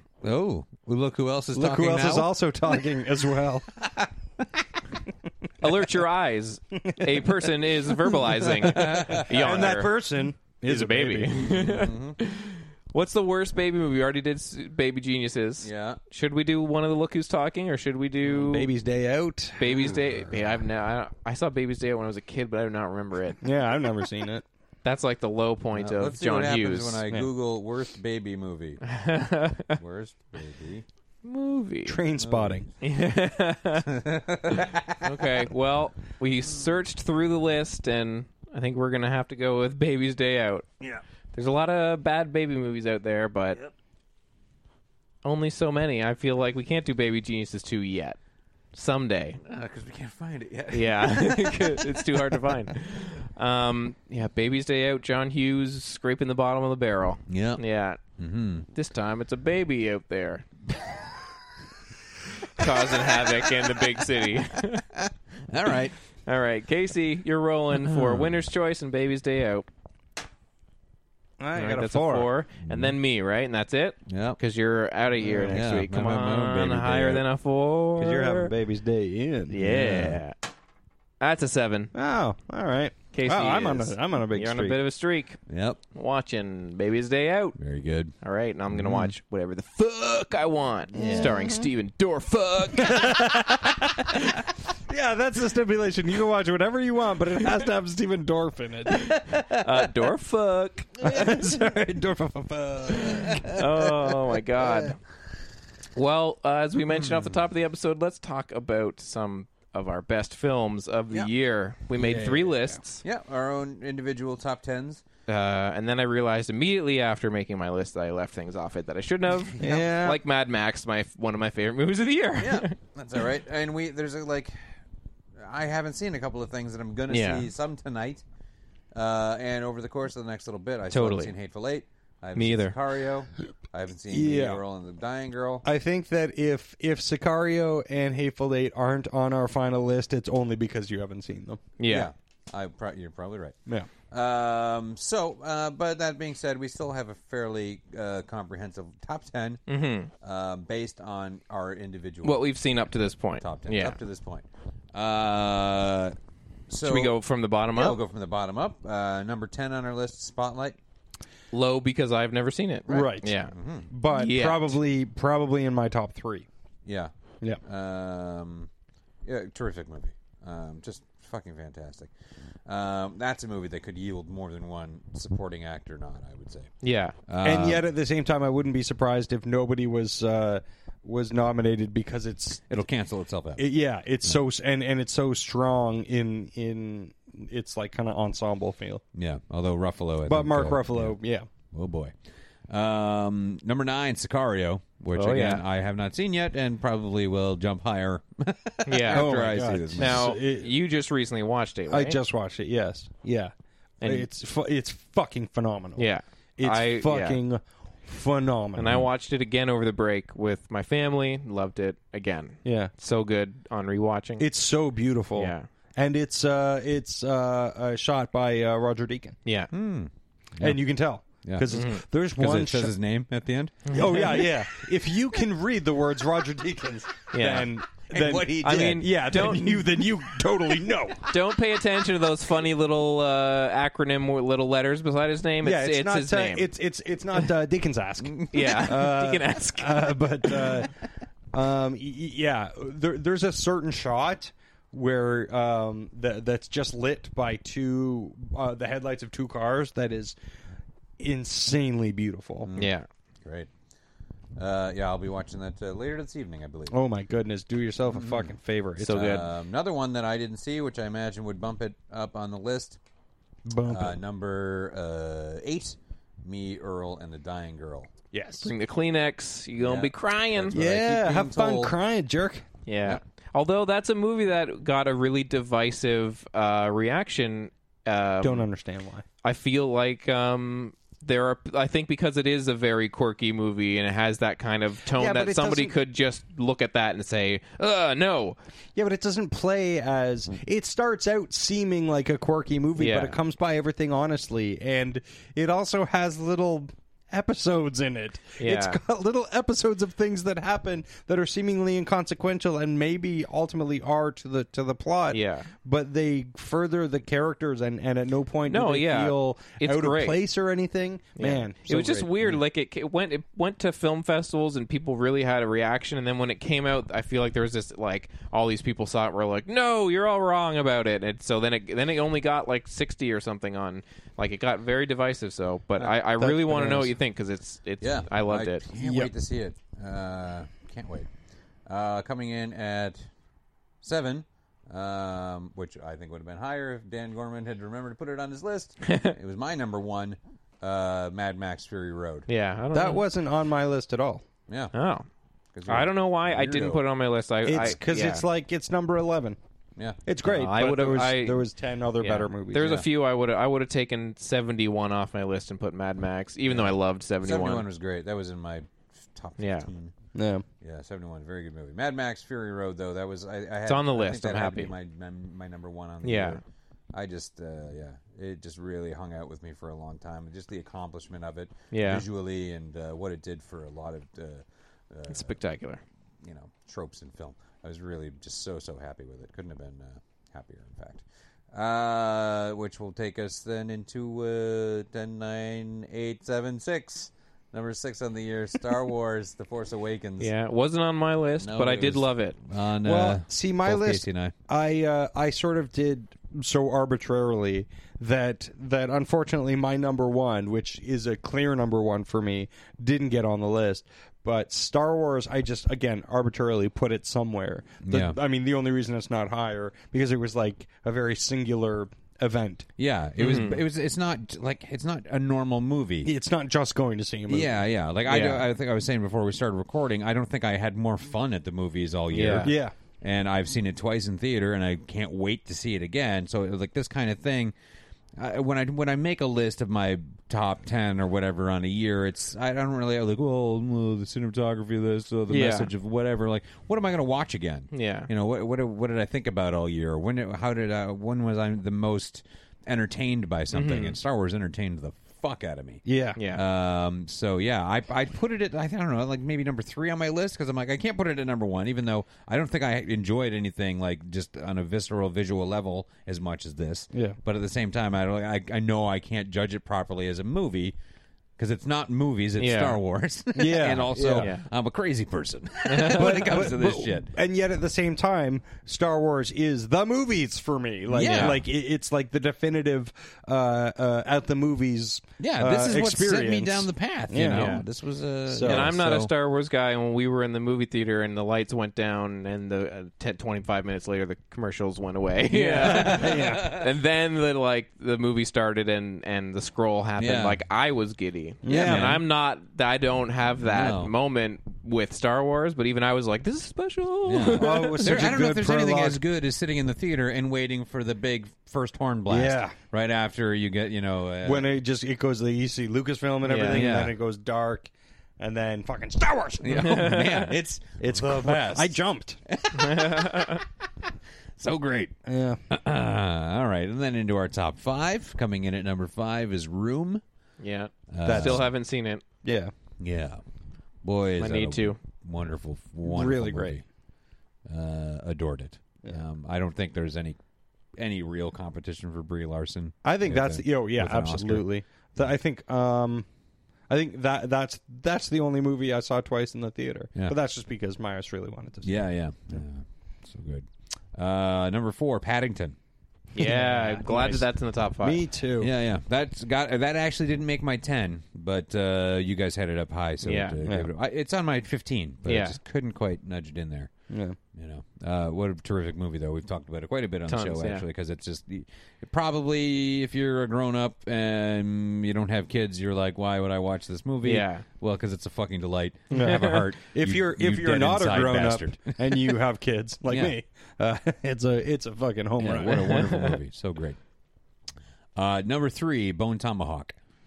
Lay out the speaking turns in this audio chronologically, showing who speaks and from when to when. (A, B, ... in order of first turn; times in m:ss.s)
0:00.2-0:02.3 A
0:01.5-0:03.6 B
0:05.6-0:09.9 C
0:06.8-0:07.4 B
0:08.3-0:09.7 A
0:08.9-0:11.5 B
0:10.6-0:18.7 C
0:11.3-0:12.2 A
0:15.6-0:16.0 A
0:18.3-0:20.0 B
0:19.6-0:23.4 C
0:19.9-0:20.2 A
0:23.4-0:24.4 B
0:24.8-0:27.0 C
0:25.7-0:28.8 A
0:28.8-0:29.8 C
0:29.7-0:30.8 A
0:31.2-0:32.0 C
0:31.9-0:32.7 B
0:32.2-0:32.7 A
0:32.8-0:33.9 C
0:33.8-0:35.4 A
0:34.5-0:40.7 C
0:41.3-0:43.6 C
0:45.2-0:48.2 C
0:48.7-0:49.4 C
0:49.4-0:52.8 A
0:50.7-0:58.0 C
0:57.3-0:57.6 A
0:58.2-0:58.7 A
0:58.7-1:00.4 C
1:02.6-1:04.8 C
1:02.6-1:03.9 A
1:04.6-1:05.9 A
1:06.2-1:09.6 C
1:07.8-1:08.4 A
1:11.4-1:12.3 B
1:11.6-1:18.5 C
1:12.6-1:13.0 A
1:14.1-1:14.4 A
1:15.3-1:17.2 A
1:15.3-1:15.6 B
1:18.0-1:19.6 B
1:19.5-1:20.4 C
1:19.6-1:20.2 A
1:21.2-1:21.9 C
1:21.9-1:24.8 B
1:23.1-1:25.4 C
1:25.5-1:25.8 A
1:25.9-1:27.6 C
1:27.6-1:28.1 A
1:28.2-1:33.4 C
1:28.7-1:29.1 A
1:30.9-1:31.4 A
1:30.9-1:31.7 B
1:32.8-1:39.5 B
1:39.5-1:41.1 C
1:41.0-1:43.5 B
1:43.0-1:43.6 A
1:43.5-1:45.0 C
1:46.0-1:53.0 C
1:46.9-1:47.4 A
1:52.0-1:52.8 B
1:53.0-1:55.0 A
1:55.3-2:02.8 C
1:59.6-2:00.2 B
2:02.4-2:04.8 A
2:05.4-2:08.2 A
2:07.1-2:07.5 C
2:08.9-2:15.6 A
2:10.9-2:11.3 C
2:12.4-2:12.8 C
2:14.1-2:14.6 B
2:15.6-2:21.7 B
2:21.8-2:22.1 C
2:21.9-2:23.6 A
2:24.1-2:29.6 A
2:29.7-2:30.1 C
2:30.2-2:32.4 A
2:32.2-2:34.0 C
2:33.4-2:36.2 A
2:36.7-2:37.2 A
2:36.8-2:38.0 C
2:37.7-2:40.8 A
2:41.5-2:43.5 C
2:42.8-2:43.9 A
2:42.9-2:43.3 B
2:43.9-2:46.5 B
2:44.1-2:44.8 C
2:46.8-2:47.1 A
2:47.6-2:48.7 A
2:49.2-2:52.1 A
2:52.6-2:56.7 A
2:56.8-2:57.2 C
2:57.2-2:57.8 A
2:57.4-3:02.8 B
3:02.7-3:03.6 A
3:03.6-3:09.0 B
3:09.1-3:11.2 A
3:10.3-3:11.5 B
3:11.7-3:12.1 A
3:12.7-3:20.3 A
3:15.1-3:15.6 C
3:18.8-3:19.3 C
3:19.1-3:20.7 B
3:20.0-3:22.2 C
3:21.9-3:29.0 B
3:24.0-3:24.3 C
3:26.0-3:27.4 C
3:28.8-3:34.4 C
3:32.6-3:32.9 B
3:34.4-3:39.4 B
3:35.4-3:35.6 C
3:39.4-3:39.7 C
3:39.7-3:40.8 A
3:40.6-3:42.9 B
3:41.4-3:44.5 A
3:41.7-3:42.0 C
3:43.9-3:44.2 C
3:43.9-3:51.3 B
3:47.3-3:47.7 C
3:48.1-3:50.4 A
3:48.6-3:49.6 C
3:51.3-3:56.7 C
3:55.6-4:00.9 B
3:58.5-4:00.6 C
4:01.5-4:10.4 B
4:11.2-4:12.7 B
4:12.6-4:13.7 A
4:12.8-4:13.1 C
4:14.6-4:17.0 A
4:16.9-4:19.3 B
4:18.1-4:23.0 A
4:19.0-4:19.4 C
4:23.6-4:24.2 B
4:23.8-4:28.1 A
4:28.3-4:28.7 B
4:28.6-4:30.7 C
4:29.8-4:31.9 A
4:30.7-4:32.6 B
4:32.9-4:38.6 C
4:38.4-4:39.2 B
4:39.4-4:48.6 C
4:45.1-4:46.0 B
4:49.0-5:12.3 B
4:53.0-4:53.4 C
4:58.6-4:59.0 C
5:05.3-5:05.7 C
5:08.7-5:10.4 C
5:11.4-5:28.8 C
5:26.4-5:27.1 B
5:28.0-5:31.3 A
5:29.0-5:29.3 B
5:31.8-5:33.3 A
5:34.0-5:42.5 A
5:39.1-5:39.3 C
5:42.5-5:43.2 C
5:42.9-5:44.4 B
5:44.7-5:44.9 A
5:44.9-5:45.2 C
5:45.7-5:47.0 A
5:45.9-5:48.4 C
5:47.6-5:49.6 B
5:50.2-5:53.1 B
5:50.4-5:51.6 C
5:52.2-5:57.9 C
5:56.7-6:00.1 A
5:59.6-5:59.9 C
6:00.3-6:00.6 B
6:00.8-6:15.6 A
6:03.8-6:04.9 C
6:06.2-6:06.6 C
6:11.9-6:12.2 C
6:15.3-6:16.0 C
6:16.4-6:30.5 A
6:30.4-6:32.6 C
6:31.6-6:34.5 A
6:33.0-6:52.9 B
6:48.0-6:48.4 A
6:53.0-6:56.3 A
6:53.4-6:53.8 C
6:56.2-6:57.8 B
6:57.5-7:07.7 A
6:58.3-6:58.6 C
7:02.3-7:02.7 C
7:02.6-7:02.9 B
7:08.4-7:41.0 A
7:15.5-7:15.9 C
7:17.9-7:18.3 C
7:23.7-7:24.2 C
7:26.0-7:26.4 B
7:26.4-7:26.6 C
7:37.1-7:37.4 B
7:41.6-7:47.3 A
7:42.6-7:43.0 C
7:43.5-7:44.5 B
7:45.9-7:46.2 C
7:46.1-7:57.8 B
7:51.1-7:51.6 A
7:55.4-7:59.3 A
7:57.5-7:57.8 C
7:58.5-7:58.9 B
7:58.6-8:18.2 C
8:05.5-8:06.7 B
8:05.7-8:06.9 A
8:10.2-8:10.6 A
8:11.6-8:12.2 B
8:11.7-8:12.2 A
8:13.6-8:14.1 A
8:17.2-8:24.7 A
8:17.5-8:19.2 B
8:22.3-8:22.8 B
8:24.4-8:30.0 B
8:26.4-8:26.9 C
8:26.7-8:27.1 A
8:29.6-8:32.0 A
8:29.7-8:30.5 C
8:31.0-8:32.4 B
8:32.5-8:35.1 A
8:32.7-8:33.6 C
8:35.2-8:35.6 B
8:35.7-8:40.2 A
8:40.6-8:42.2 C
8:41.1-8:41.7 A
8:41.2-8:41.7 B
8:42.4-8:42.7 B
8:43.0-8:43.4 A
8:44.0-8:46.8 A
8:44.4-8:45.0 C
8:46.0-8:46.8 B
8:47.7-8:50.4 A
8:51.0-8:55.3 A
8:53.0-8:56.2 B
8:56.9-9:02.6 B
9:01.8-9:05.8 A
9:06.3-9:08.2 C
9:06.4-9:07.4 B
9:08.0-9:08.7 B
9:08.6-9:16.9 A
9:13.2-9:13.6 C
9:13.6-9:13.9 B
9:15.2-9:15.6 C
9:17.1-9:17.4 B
9:17.5-9:32.4 A
9:20.3-9:20.8 C
9:27.2-9:27.6 C
9:29.1-9:29.4 C
9:29.1-9:35.7 B
9:33.1-9:33.4 A
9:35.4-9:37.0 A
9:35.7-9:36.4 C
9:38.2-9:40.0 A